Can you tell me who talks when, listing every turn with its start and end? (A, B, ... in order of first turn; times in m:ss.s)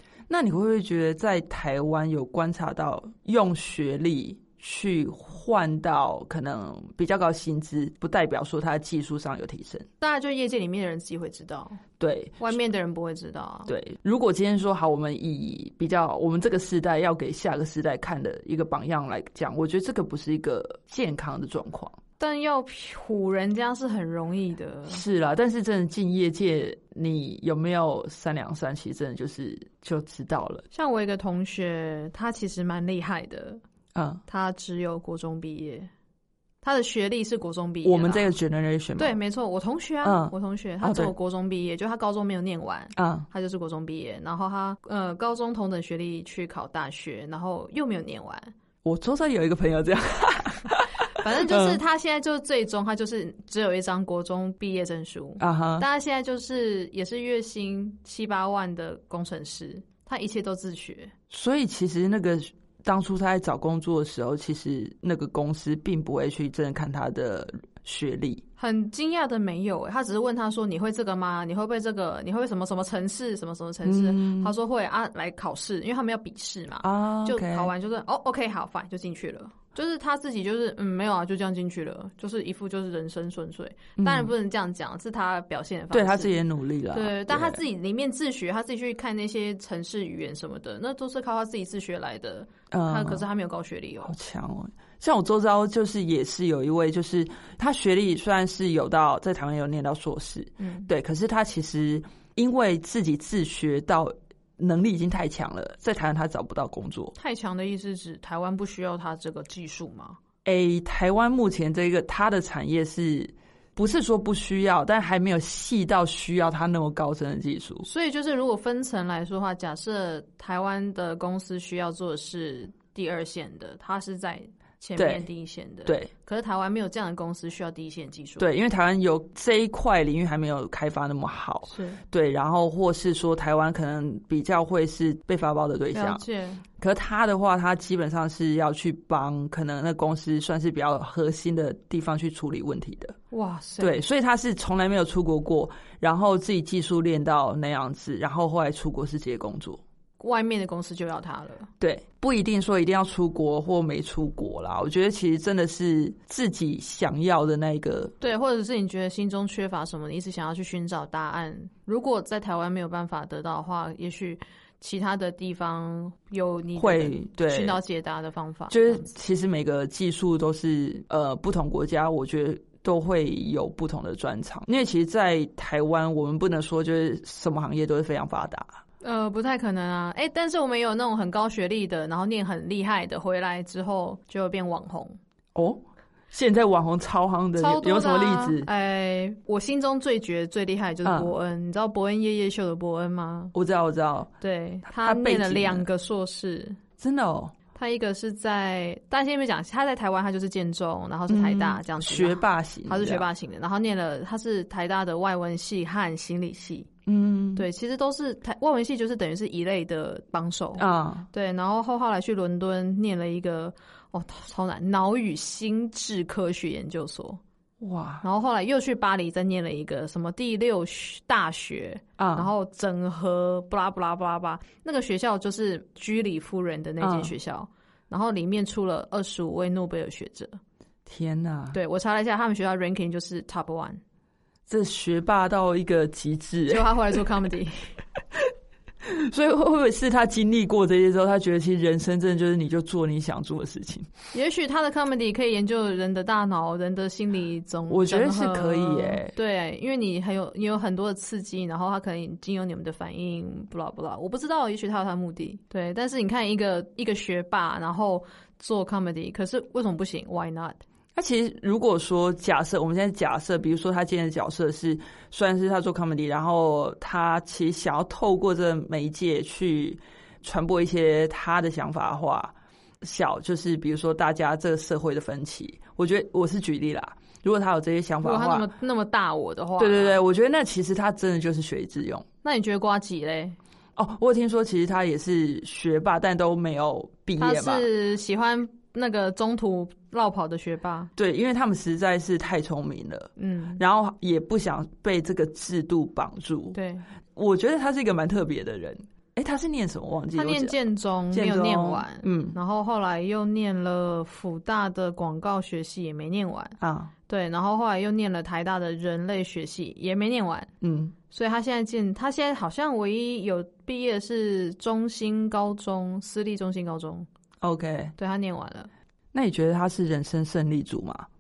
0:00.3-0:09.9 A
0:10.0-0:11.8 B
0:12.0-0:12.5 A
0:12.4-0:13.7 B
0:13.7-0:22.0 A
0:22.2-0:25.0 B
0:24.9-0:30.6 A
0:30.7-0:33.6 B
0:33.9-0:34.2 A
0:34.3-0:35.9 B
0:36.6-0:38.3 B
0:37.8-0:39.2 A
0:39.0-0:48.5 B
0:40.0-0:41.1 A
0:43.0-0:43.3 A
0:48.8-0:51.8 A
0:51.2-1:01.1 B
0:55.4-0:55.8 A
1:01.3-1:08.4 A
1:08.6-1:26.4 B
1:13.8-1:14.5 A
1:16.8-1:17.7 A
1:24.0-1:24.3 A
1:25.9-1:27.6 A
1:26.9-1:34.1 B
1:32.7-1:33.2 A
1:34.0-1:47.1 A
1:40.6-1:40.9 B
1:47.2-1:50.2 B
1:50.4-1:57.9 A
1:57.8-2:08.5 B
2:05.0-2:05.2 A
2:05.8-2:06.1 A
2:08.4-2:16.2 A
2:11.7-2:12.0 B
2:15.9-2:16.6 B
2:16.8-2:23.2 A
2:23.3-2:24.0 B
2:23.8-2:29.8 A
2:30.2-2:31.7 B
2:31.8-2:38.1 A
2:38.2-2:49.1 B
2:46.8-2:47.8 A
2:48.7-2:58.8 A
2:59.0-3:05.2 B
3:05.5-3:08.7 A
3:07.6-3:13.5 B
3:11.0-3:11.3 A
3:13.5-3:14.3 A
3:14.4-3:16.8 B
3:14.8-3:15.8 A
3:17.0-3:17.5 A
3:17.7-3:26.9 B
3:21.3-3:23.2 A
3:27.0-3:27.6 A
3:27.6-3:37.4 B
3:30.8-3:31.3 A
3:37.8-3:38.2 A
3:38.2-3:50.6 B
3:42.2-3:42.5 A
3:47.0-3:47.3 A
3:51.0-3:51.8 A
3:51.7-3:54.0 B
3:54.7-3:57.2 A
3:56.7-3:57.9 B
3:59.0-4:04.1 A
4:04.3-4:20.8 B
4:07.9-4:09.3 A
4:21.1-4:38.7 A
4:38.2-4:40.2 B
4:39.8-4:42.2 A
4:42.4-4:43.6 B
4:44.0-4:47.9 A
4:47.4-4:51.1 B
4:51.2-4:56.8 A
4:53.4-4:53.8 B
4:56.7-4:57.0 B
4:57.3-5:00.8 A
5:00.3-5:10.7 B
5:01.3-5:02.6 A
5:06.8-5:07.1 A
5:10.8-5:11.1 A
5:11.3-5:17.3 B
5:17.6-5:18.1 A
5:18.2-5:18.9 B
5:19.3-5:21.3 A